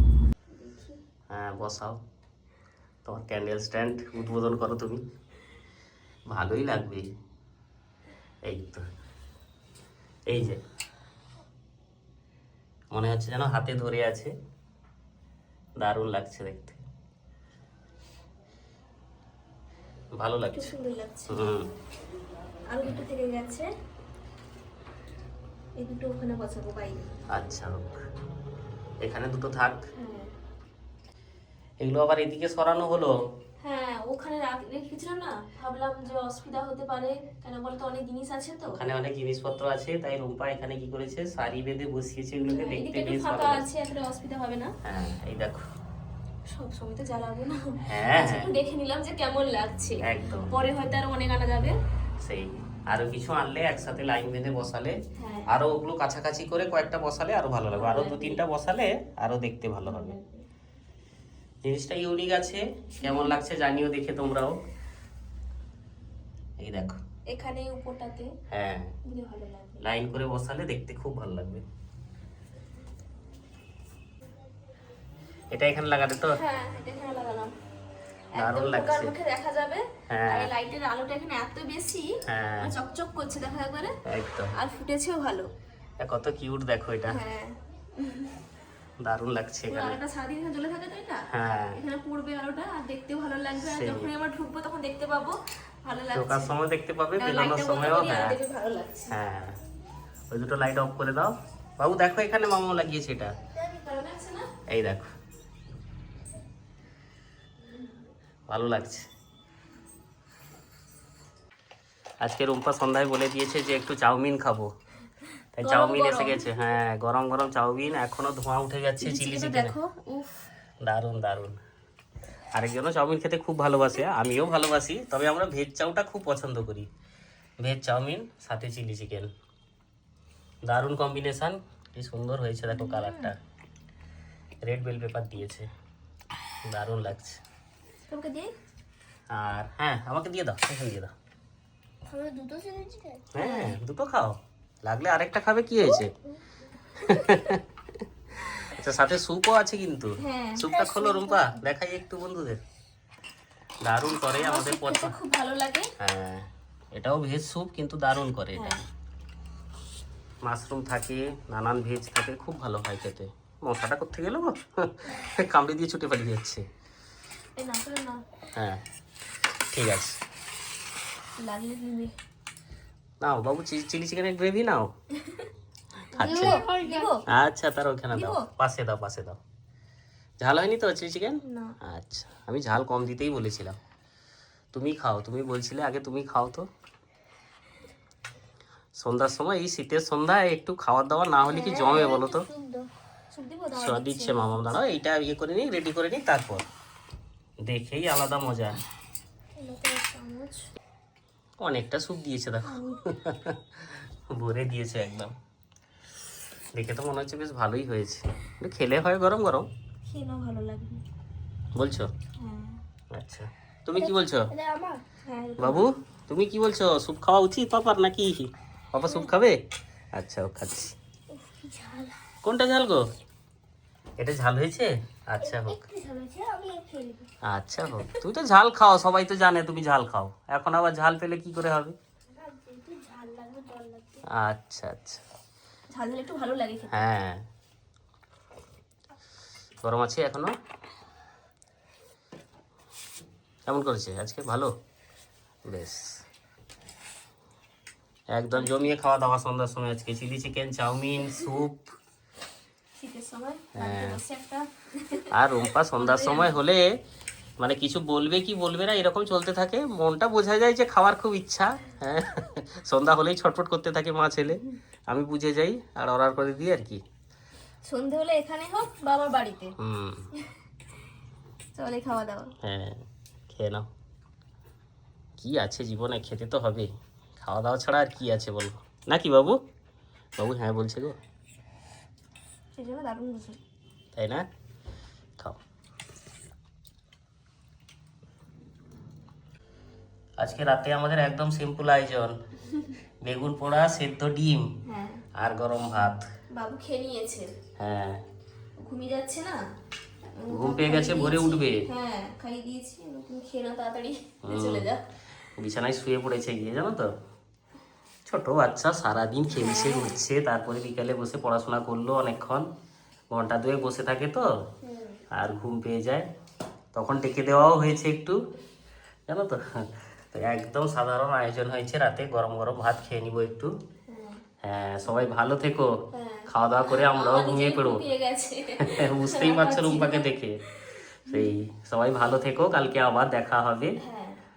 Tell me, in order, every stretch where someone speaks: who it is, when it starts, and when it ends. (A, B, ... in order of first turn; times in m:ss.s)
0:00.5-0:01.0 A
0:01.3-0:02.0 B
0:03.0-0:05.0 B
0:06.3-0:07.0 B
0:08.4-0:08.8 B
0:10.3-0:10.6 B
0:12.9-0:14.3 B
0:15.8-0:16.8 B
0:20.2-0:20.7 B
0:20.5-0:21.5 A
0:21.3-0:21.7 B
0:22.6-0:23.7 A
0:25.8-0:27.1 A
0:27.3-0:28.0 B
0:29.0-0:29.8 B
0:30.0-0:30.3 A
0:31.8-0:33.2 B
0:33.6-0:38.8 A
0:38.7-0:43.7 B
0:42.5-0:44.7 A
0:44.8-0:45.6 B
0:46.5-0:51.8 A
0:47.8-0:48.5 B
0:50.0-0:50.5 B
0:52.2-0:55.0 B
0:55.2-0:55.5 A
0:55.5-1:00.2 B
0:57.7-0:58.4 A
0:59.8-1:00.4 A
1:01.6-1:04.6 B
1:03.0-1:03.4 A
1:06.6-1:07.0 B
1:07.3-1:08.3 A
1:08.5-1:08.9 B
1:09.0-1:09.8 A
1:09.8-1:11.6 B
1:15.5-1:16.4 B
1:16.3-1:17.5 A
1:18.3-1:24.0 A
1:18.3-1:19.1 B
1:20.1-1:20.5 B
1:22.2-1:22.7 B
1:24.0-1:24.5 B
1:24.5-1:25.5 A
1:26.0-1:27.2 B
1:27.1-1:28.4 A
1:29.0-1:30.0 B
1:29.7-1:36.5 A
1:31.3-1:31.8 B
1:33.6-1:34.1 B
1:36.1-1:38.3 B
1:37.2-1:39.1 A
1:39.1-1:39.6 B
1:40.3-1:43.3 B
1:43.5-1:44.5 A
1:44.7-1:45.1 B
1:48.5-1:49.1 B
1:52.2-1:54.7 B
1:55.5-1:59.8 B
1:55.6-1:56.6 A
1:59.0-2:00.5 A
2:00.8-2:01.6 B
2:02.5-2:06.9 B
2:07.6-2:09.3 B
2:10.6-2:13.4 B
2:12.7-2:13.3 A
2:14.6-2:15.7 B
2:16.7-2:17.4 B
2:18.1-2:18.5 A
2:19.3-2:21.1 B
2:22.1-2:23.3 C
2:23.3-2:26.1 B
2:23.4-2:23.8 A
2:26.9-2:27.6 B
2:27.0-2:27.4 A
2:28.4-2:32.6 B
2:30.2-2:30.8 A
2:30.7-2:31.5 C
2:33.8-2:35.1 B
2:34.2-2:35.9 A
2:36.0-2:38.8 B
2:40.4-2:46.6 B
2:47.6-2:48.2 A
2:48.6-2:48.8 B
2:49.7-2:50.2 B
2:51.4-2:52.1 A
2:53.2-2:54.9 B
2:55.2-2:55.5 A
2:56.1-2:56.6 B
2:56.2-2:57.2 A
2:56.2-2:57.1 C
2:57.3-2:59.4 B
2:58.1-2:58.4 A
3:00.4-3:03.8 B
3:01.5-3:01.8 A
3:04.7-3:06.7 B
3:08.9-3:12.5 B
3:11.5-3:12.2 A
3:11.5-3:12.9 C
3:13.3-3:14.6 A
3:13.7-3:16.6 B
3:17.6-3:18.8 B
3:19.6-3:20.6 A
3:21.6-3:25.3 B
3:26.7-3:29.7 B
3:30.0-3:31.0 A
3:31.7-3:32.1 B
3:32.4-3:32.8 A
3:33.1-3:34.5 B
3:34.0-3:35.0 C
3:35.2-3:35.9 A
3:35.6-3:39.6 B
3:40.1-3:40.9 B
3:41.3-3:42.2 C
3:42.4-3:43.1 B
3:44.2-3:45.8 B
3:45.4-3:47.3 C
3:47.4-3:52.0 B
3:52.4-3:54.2 C
3:54.3-3:55.2 B
3:55.9-3:57.1 A
3:56.9-3:57.4 B
3:59.8-4:00.5 B
4:03.7-4:04.7 B
4:05.6-4:06.2 B
4:08.3-4:11.9 B
4:13.0-4:16.6 A
4:13.8-4:14.2 B
4:15.3-4:17.0 B
4:17.6-4:27.0 B
4:27.8-4:29.7 A
4:29.8-4:30.3 B
4:30.3-4:30.6 A
4:31.7-4:32.5 A
4:32.6-4:33.9 B
4:35.4-4:39.6 B
4:40.4-4:41.2 B
4:42.7-4:43.6 A
4:44.1-4:44.4 B
4:50.4-4:52.4 B
4:53.2-4:54.7 B
4:54.8-4:55.2 A
4:55.3-4:56.2 B
4:56.5-4:57.5 A
4:57.8-4:58.2 B
4:58.8-4:59.6 A
5:00.4-5:05.0 A
5:00.5-5:01.9 B
5:04.4-5:04.9 B
5:05.6-5:07.1 B
5:08.3-5:12.7 B
5:09.5-5:10.2 A
5:13.3-5:14.5 B
5:14.8-5:15.2 A
5:15.3-5:16.3 B
5:16.9-5:18.4 B
5:19.3-5:23.7 B
5:24.1-5:24.4 A
5:24.6-5:25.9 B
5:26.1-5:31.5 A
5:26.5-5:28.0 B
5:28.8-5:30.6 B
5:31.3-5:34.0 B
5:34.0-5:34.4 A